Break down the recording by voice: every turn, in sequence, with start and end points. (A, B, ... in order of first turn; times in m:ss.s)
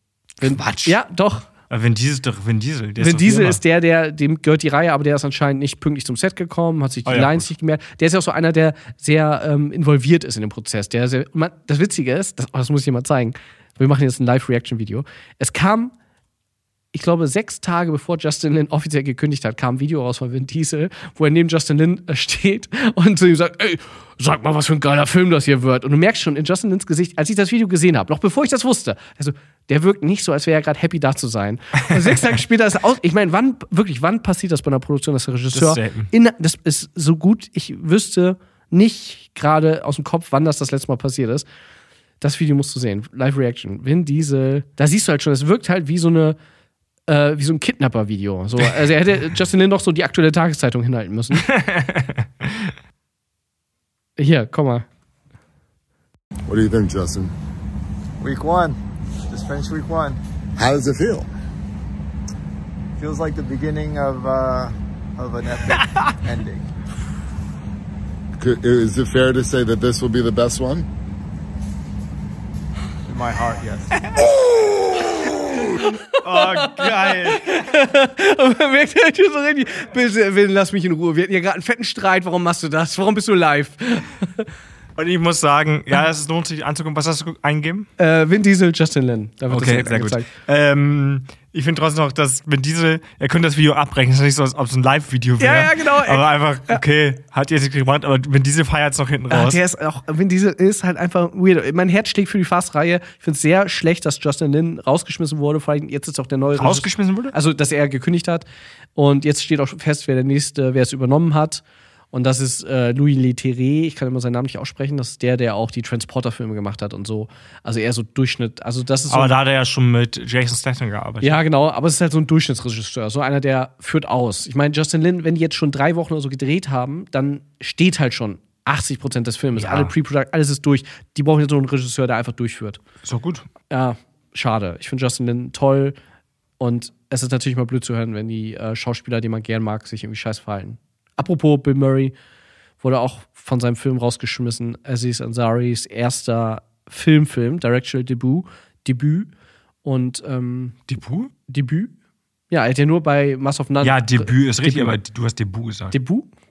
0:00.4-0:01.0 A
0:00.4-0:01.5 B
0:01.7-0:03.6 A
0:03.0-0:15.9 B
0:07.0-0:07.5 A
0:16.9-0:41.4 B
0:35.5-0:36.1 A
0:42.2-0:46.4 B
0:47.1-0:51.5 B
0:51.3-0:52.7 A
0:54.2-0:54.8 B
0:56.5-0:57.3 C
0:58.2-0:58.8 D
0:59.3-1:00.2 D
1:00.6-1:01.3 C
1:03.0-1:06.7 D
1:08.4-1:10.9 C
1:13.0-1:14.1 D
1:15.7-1:24.4 B
1:16.2-1:17.6 A
1:25.0-1:27.9 A
1:28.0-1:30.3 B
1:29.5-1:39.6 A
1:35.4-1:36.8 B
1:39.3-1:59.3 B
1:46.6-1:47.3 A
1:59.1-2:01.4 A
2:01.2-2:12.8 B
2:09.6-2:09.9 A
2:13.0-2:13.4 A
2:13.7-2:15.9 B
2:16.6-2:22.1 B
2:22.8-2:29.3 B
2:29.8-2:30.8 B
2:30.9-2:31.3 A
2:31.5-2:31.9 B
2:32.5-2:35.0 B
2:33.8-2:35.9 A
2:35.9-2:36.3 B